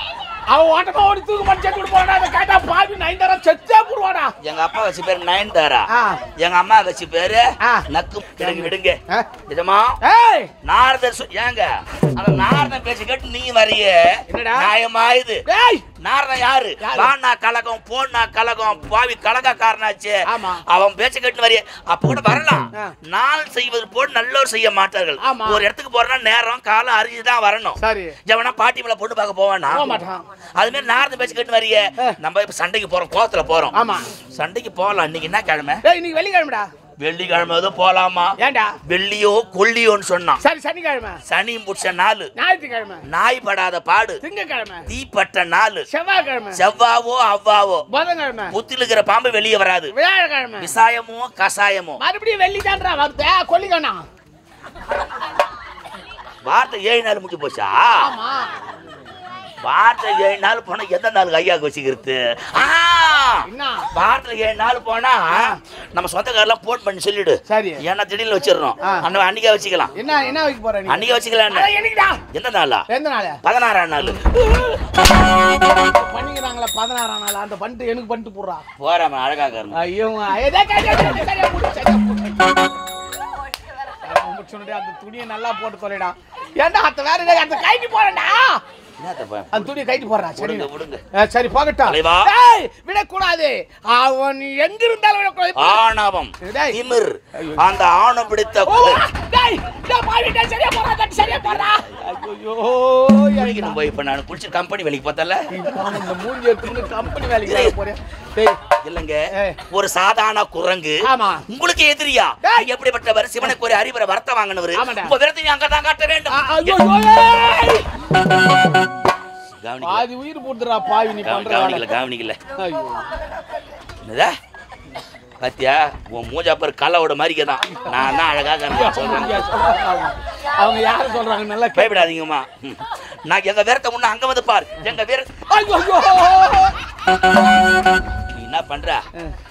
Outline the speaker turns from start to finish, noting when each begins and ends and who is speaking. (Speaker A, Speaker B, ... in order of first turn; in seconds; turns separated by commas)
Speaker A: 0.5-4.3, Speaker B: 4.4-5.8, Speaker A: 5.9-6.2, Speaker B: 6.4-10.0, Speaker A: 8.4-9.2, Speaker A: 10.0-10.5, Speaker B: 10.6-15.4, Speaker A: 14.3-14.7, Speaker A: 15.5-15.8, Speaker B: 16.0-30.0, Speaker A: 16.8-17.1, Speaker A: 20.3-20.6, Speaker A: 25.2-25.6, Speaker A: 27.8-28.1, Speaker A: 29.7-30.2, Speaker B: 30.6-33.8, Speaker A: 33.7-34.1, Speaker B: 34.3-35.8, Speaker A: 35.8-36.7, Speaker B: 37.0-40.4, Speaker A: 38.4-38.8, Speaker A: 40.4-41.2, Speaker B: 41.2-42.3, Speaker A: 42.4-43.0, Speaker B: 43.1-44.2, Speaker A: 44.2-44.9, Speaker B: 44.9-45.8, Speaker A: 45.9-46.6, Speaker B: 46.5-47.9, Speaker A: 47.9-48.5, Speaker B: 48.5-49.9, Speaker A: 49.9-50.7, Speaker B: 50.6-52.0, Speaker A: 52.0-54.0, Speaker B: 56.4-58.1, Speaker A: 58.0-58.5, Speaker B: 59.6-69.9, Speaker A: 63.5-63.8, Speaker A: 70.0-70.9, Speaker B: 70.8-71.7, Speaker A: 71.5-72.2, Speaker B: 72.3-72.8, Speaker A: 72.9-73.4, Speaker B: 73.4-74.3, Speaker A: 74.0-74.5, Speaker A: 76.0-78.6, Speaker B: 78.8-79.8, Speaker A: 79.8-82.3, Speaker A: 84.0-88.6, Speaker B: 89.0-91.0, Speaker A: 89.5-90.7, Speaker A: 91.2-95.8, Speaker B: 91.8-92.4, Speaker B: 95.5-99.0, Speaker A: 98.7-103.8, Speaker B: 101.1-102.0, Speaker B: 103.2-107.8, Speaker A: 105.5-108.5, Speaker B: 108.8-117.7, Speaker A: 111.1-111.4, Speaker A: 114.8-115.1, Speaker A: 116.4-117.8, Speaker B: 119.6-120.1, Speaker A: 119.9-121.8, Speaker B: 121.2-122.4, Speaker A: 122.6-123.0, Speaker B: 124.0-124.3, Speaker B: 125.4-129.7, Speaker A: 128.7-132.0, Speaker B: 131.7-136.3, Speaker A: 135.5-136.7, Speaker B: 138.3-139.0